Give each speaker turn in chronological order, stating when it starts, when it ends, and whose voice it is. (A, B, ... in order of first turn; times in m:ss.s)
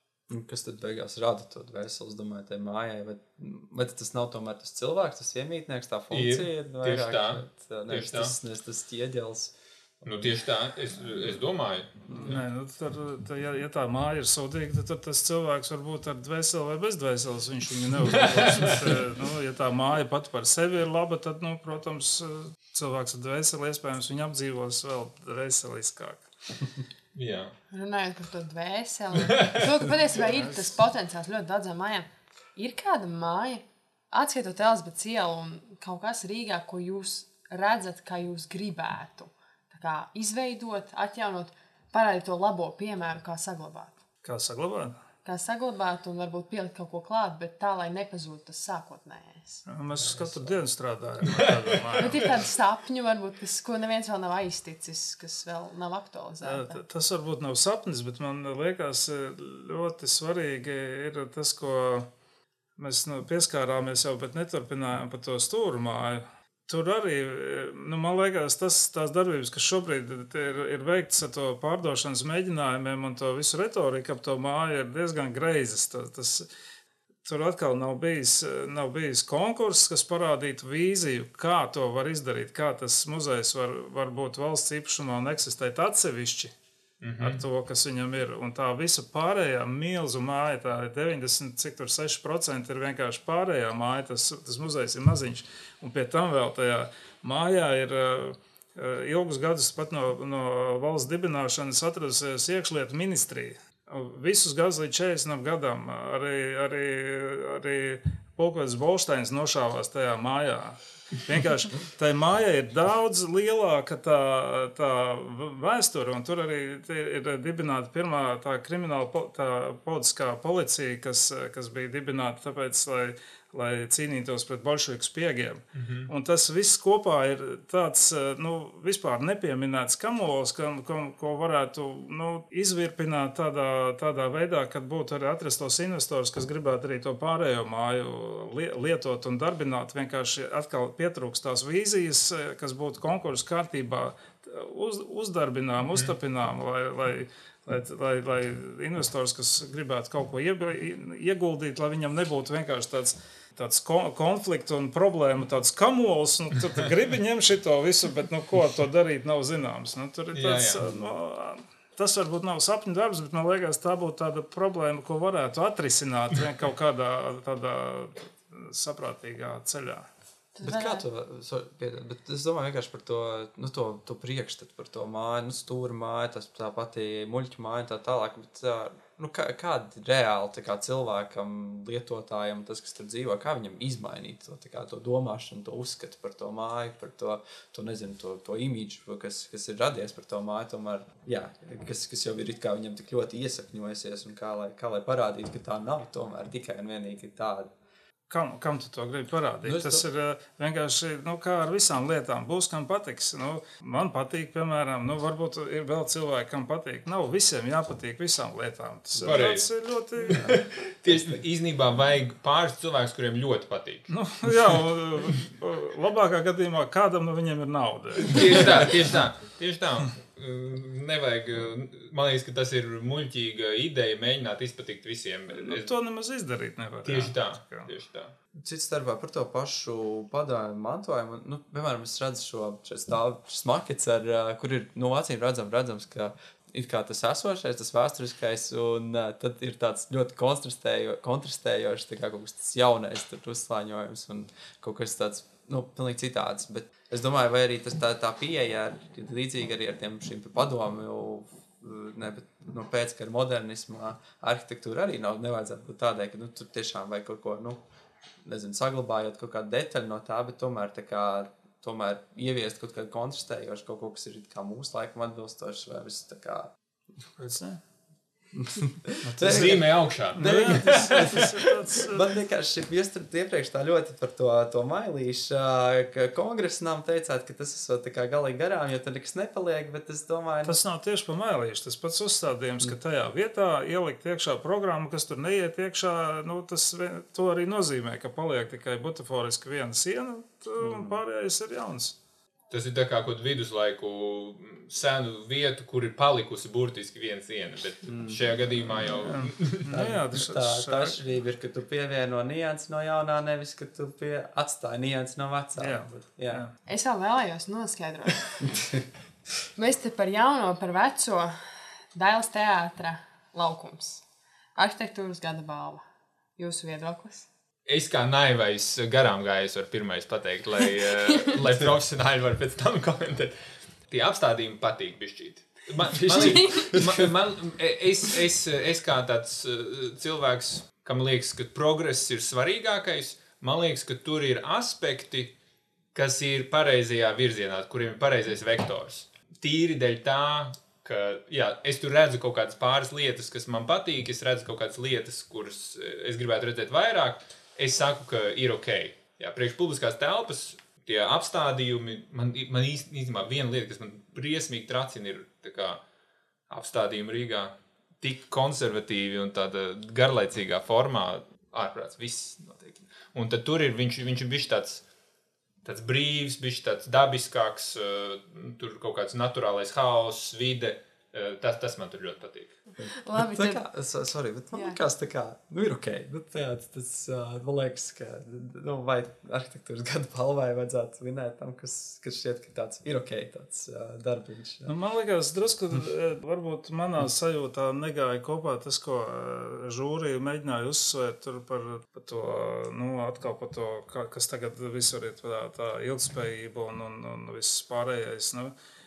0:00.3-0:10.3 A
0:06.1-0:08.3 B
0:10.0-0:12.4 B
0:12.1-0:26.3 C
0:18.1-0:18.8 B
0:27.1-0:27.5 B
0:27.7-0:43.9 D
0:29.2-0:29.7 B
0:44.2-0:45.0 C
0:45.2-0:49.6 D
0:49.7-0:52.2 C
0:51.2-0:51.8 B
0:52.0-0:56.8 D
0:56.4-1:02.1 C
1:02.8-1:16.5 C
1:17.2-1:26.5 C
1:27.0-1:27.4 B
1:27.2-2:50.1 C
2:05.8-2:06.1 B
2:40.3-2:40.9 B
2:50.6-2:51.0 D
2:50.6-3:17.7 A
3:18.3-3:30.4 C
3:19.6-3:20.0 A
3:29.2-3:29.7 B
3:30.3-3:34.1 B
3:30.4-3:31.4 A
3:34.1-3:38.9 C
3:38.3-3:45.9 B
3:45.5-3:47.9 C
3:47.0-3:48.3 B
3:48.6-4:17.8 A
4:18.4-4:26.7 A
4:27.4-4:27.8 C
4:28.5-4:40.8 A
4:29.2-4:32.2 C
4:29.4-4:31.6 B
4:40.6-4:52.2 C
4:50.8-4:51.2 A
4:52.7-4:59.8 B
4:58.1-4:58.4 A
4:59.2-5:01.2 C
4:59.9-5:06.6 A
5:05.8-5:06.7 C
5:06.9-5:09.0 D
5:09.8-5:11.5 D
5:12.1-5:14.2 D
5:14.8-5:16.0 D
5:16.6-5:17.5 D
5:17.9-5:35.6 B
5:21.3-5:21.6 D
5:26.2-5:27.0 D
5:26.7-5:27.3 A
5:36.1-5:56.0 B
5:56.7-6:05.0 B
6:05.8-6:12.8 B
6:13.0-6:24.9 A
6:13.2-6:13.8 D
6:24.9-6:38.7 C